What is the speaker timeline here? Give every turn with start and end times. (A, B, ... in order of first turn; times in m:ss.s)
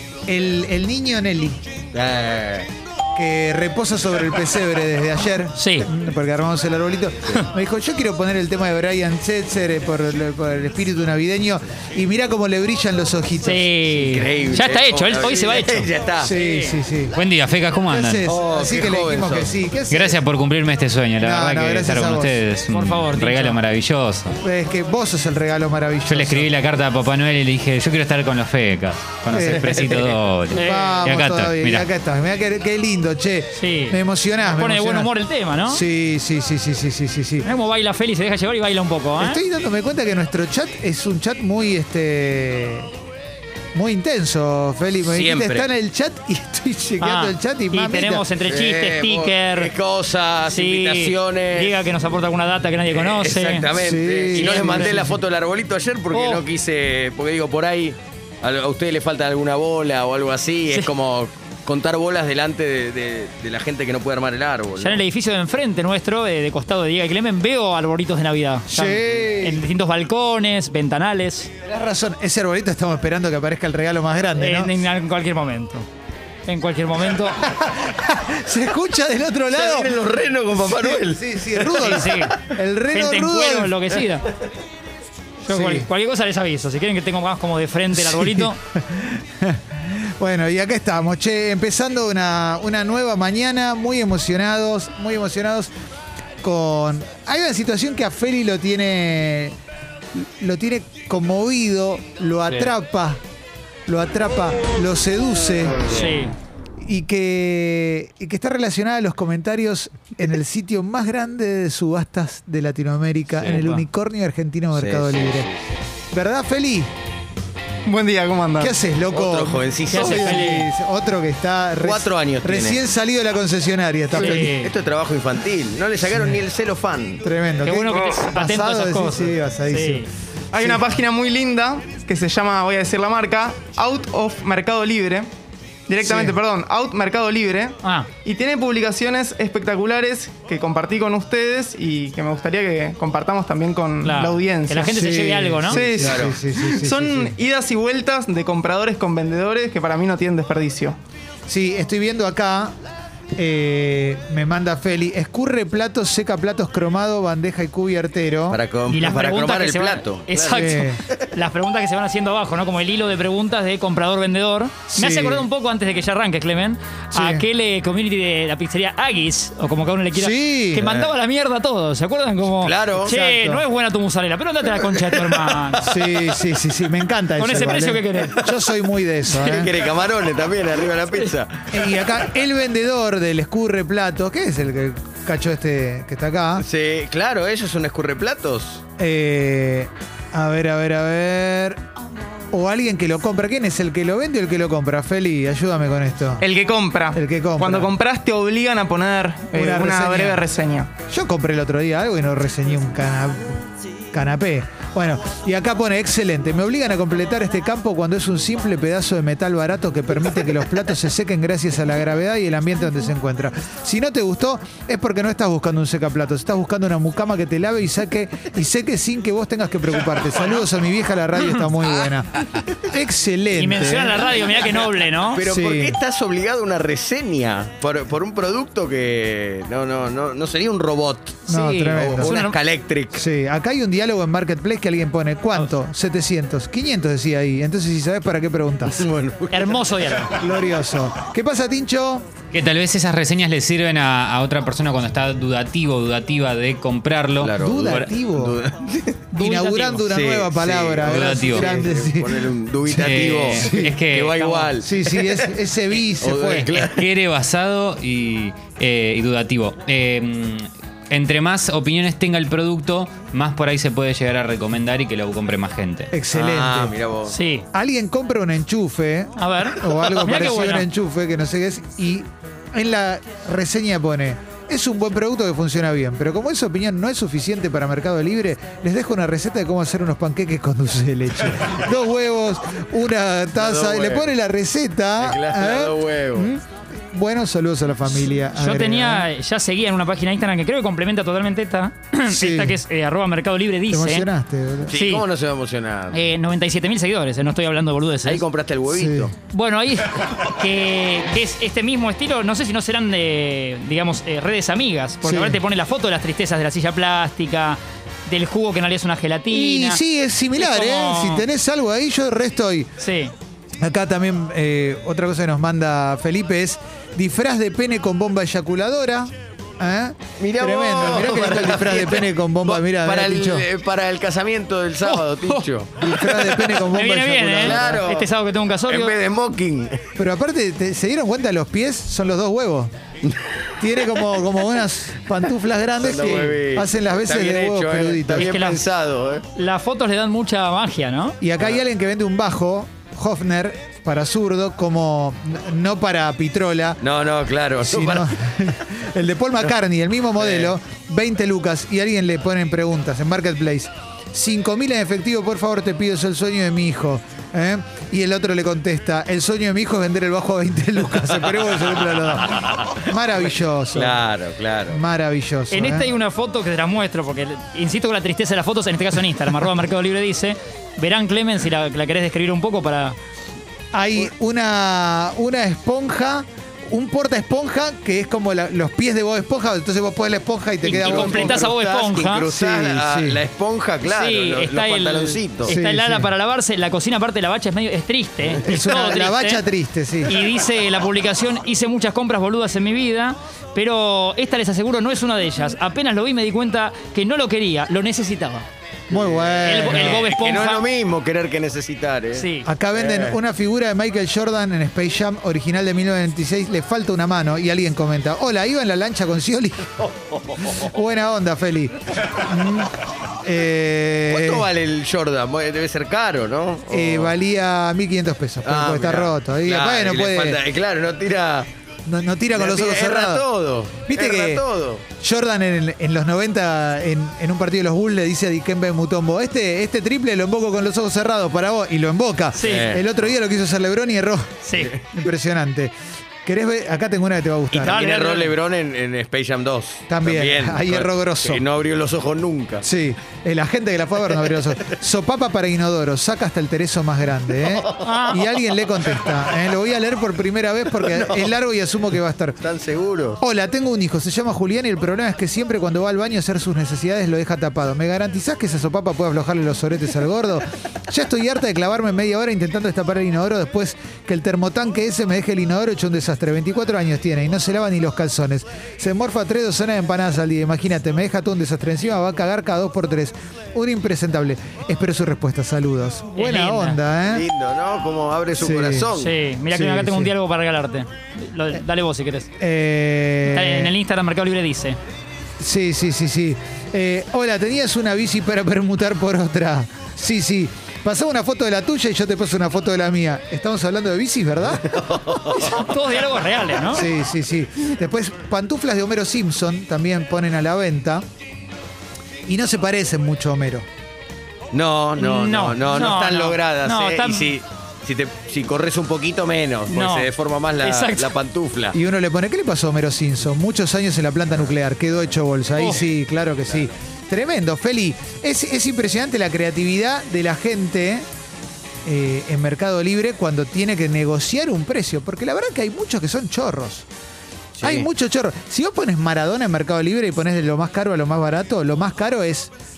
0:00.3-0:01.6 A
0:01.9-0:02.7 B
0:03.2-0:13.7 A
0:05.6-0:05.9 C
0:13.4-0:16.8 C
0:14.0-0:16.3 B
0:16.2-0:17.2 A
0:17.1-0:18.4 D
0:17.9-0:20.2 A
0:18.3-0:19.6 B
0:19.9-0:24.4 D
0:21.2-0:22.4 A
0:22.7-0:23.6 C
0:24.4-0:26.5 A
0:26.1-0:31.9 D
0:29.3-0:35.1 A
0:30.5-0:31.0 C
0:33.6-0:35.8 C
0:35.6-0:37.5 A
0:37.4-0:39.4 C
0:39.2-0:42.9 A
0:43.7-0:48.2 A
0:45.0-0:45.7 B
0:47.0-0:49.7 C
0:48.5-0:51.7 B
0:50.4-0:53.7 C
0:52.9-1:05.0 B
0:53.7-0:55.2 A
0:54.3-0:55.2 C
0:56.1-0:56.4 C
1:04.8-1:11.5 C
1:08.7-1:09.6 A
1:11.6-1:14.7 A
1:14.4-1:15.9 C
1:16.5-1:17.4 C
1:17.4-1:20.0 A
1:19.5-1:22.1 B
1:20.6-1:23.8 A
1:21.8-1:22.3 C
1:22.9-1:24.3 C
1:25.5-1:25.9 A
1:25.5-1:28.6 C
1:27.9-1:35.7 A
1:36.4-1:39.6 A
1:40.1-1:43.2 A
1:43.9-1:46.0 A
1:45.9-1:46.3 C
1:46.8-1:55.5 A
1:53.4-1:53.9 C
1:54.7-1:55.5 B
1:56.1-1:56.9 A
1:57.8-1:58.8 E
1:58.6-2:04.6 A
1:59.1-2:00.5 B
1:59.9-2:00.7 C
2:01.8-2:02.8 B
2:04.1-2:04.7 C
2:04.5-2:07.2 B
2:07.2-2:10.1 A
2:07.6-2:10.1 C
2:10.5-2:15.3 E
2:10.6-2:10.8 A
2:15.9-2:25.0 E
2:16.0-2:16.4 A
2:17.8-2:18.1 C
2:24.0-2:25.8 C
2:24.9-2:27.4 A
2:25.7-2:31.0 E
2:26.0-2:26.4 B
2:31.5-2:32.8 A
2:33.4-2:38.6 A
2:38.5-2:41.3 B
2:38.9-2:56.0 C
2:40.5-2:41.0 A
2:44.9-2:45.5 A
2:47.1-2:47.4 A
2:50.1-2:51.0 A
2:52.6-2:53.1 B
2:53.0-2:53.6 A
2:55.8-2:59.7 A
2:57.4-2:58.4 C
2:59.3-3:01.7 B
3:01.7-3:06.7 A
3:06.6-3:08.8 B
3:09.0-3:11.8 A
3:12.5-3:16.5 A
3:16.4-3:20.9 E
3:17.1-3:17.9 A
3:19.5-3:20.4 A
3:21.1-3:23.6 A
3:24.1-3:44.3 A
3:43.6-3:45.4 C
3:45.3-3:53.2 B
3:45.5-3:46.0 A
3:51.5-3:52.6 C
3:51.5-3:52.5 A
3:53.1-3:59.1 A
3:58.9-3:59.8 B
3:59.5-4:00.4 C
4:00.4-4:02.3 A
4:02.5-4:08.1 D
4:07.4-4:09.3 B
4:07.6-4:08.6 A
4:09.3-4:14.0 A
4:09.3-4:10.1 C
4:10.1-4:15.5 B
4:11.0-4:11.8 D
4:12.9-4:14.7 D
4:14.8-4:16.7 A
4:16.2-4:17.1 B
4:16.6-4:26.1 D
4:26.1-4:27.0 A
4:26.3-4:27.4 B
4:27.3-4:27.7 C
4:27.7-4:49.3 A
4:29.4-4:30.9 C
4:43.6-4:44.3 B
4:45.2-4:46.5 B
4:48.3-4:54.3 C
4:52.3-4:52.8 A
4:53.9-4:54.9 A
4:54.9-4:56.2 B
4:54.9-4:55.2 C
4:56.1-4:58.4 C
4:58.2-4:59.3 B
4:58.9-4:59.3 A
4:59.5-5:10.0 C
5:05.2-5:05.6 A
5:09.5-5:12.9 A
5:10.6-5:11.4 C
5:13.0-5:13.3 C
5:13.8-5:23.7 A
5:20.4-5:26.9 B
5:25.0-5:25.7 C
5:26.0-5:28.0 A
5:26.8-5:29.2 C
5:27.6-5:28.3 B
5:28.9-5:30.0 B
5:30.2-5:32.9 A
5:33.8-5:38.5 A
5:36.0-5:39.4 B
5:38.4-5:38.8 C
5:39.6-5:41.4 C
5:41.4-5:47.0 A
5:47.0-5:48.3 B
5:47.8-6:04.2 A
5:50.4-5:50.7 B
6:02.5-6:02.8 B
6:03.9-6:05.0 B
6:04.9-6:06.1 A
6:05.7-6:13.2 C
6:13.9-6:21.7 A
6:20.8-6:22.5 C
6:20.9-6:25.7 B
6:22.5-6:23.4 A
6:24.0-6:29.6 C
6:25.6-6:26.3 A
6:28.5-6:29.2 B
6:28.6-6:30.4 A
6:30.3-6:38.7 C
6:39.1-6:40.3 A
6:39.1-6:43.4 B
6:39.6-6:40.9 C
6:42.3-6:42.7 C
6:42.6-6:50.0 A
6:50.6-6:54.7 A
6:54.3-6:57.4 B
6:56.9-7:00.6 A
6:58.6-7:01.7 B
7:02.1-7:03.5 A
7:02.5-7:05.0 B
7:04.0-7:04.6 A
7:05.2-7:15.9 A
7:12.6-7:12.9 C
7:12.6-7:13.1 B
7:14.6-7:15.0 C
7:16.4-7:18.0 A
7:17.7-7:22.8 B
7:17.9-7:18.5 C
7:20.1-7:21.6 A
7:22.8-7:32.6 A
7:27.7-7:28.5 B
7:28.0-7:28.4 C
7:31.0-7:31.5 B
7:32.6-7:33.4 B
7:33.4-7:57.5 A
7:56.4-7:57.0 C
7:57.3-7:59.3 B
7:58.6-7:59.1 A
7:59.2-8:02.5 C
7:59.7-8:00.3 A
8:02.6-8:03.9 A
8:03.5-8:05.0 C
8:05.6-8:15.0 A
8:14.9-8:15.8 B
8:15.5-8:17.1 C
8:16.9-8:21.2 A
8:22.5-8:23.9 A
8:24.7-8:32.0 B
8:25.2-8:27.6 C
8:29.9-8:31.3 C
8:31.9-8:41.3 A
8:35.8-8:36.0 C
8:42.0-8:47.1 A
8:47.8-8:48.1 B
8:47.8-8:52.7 A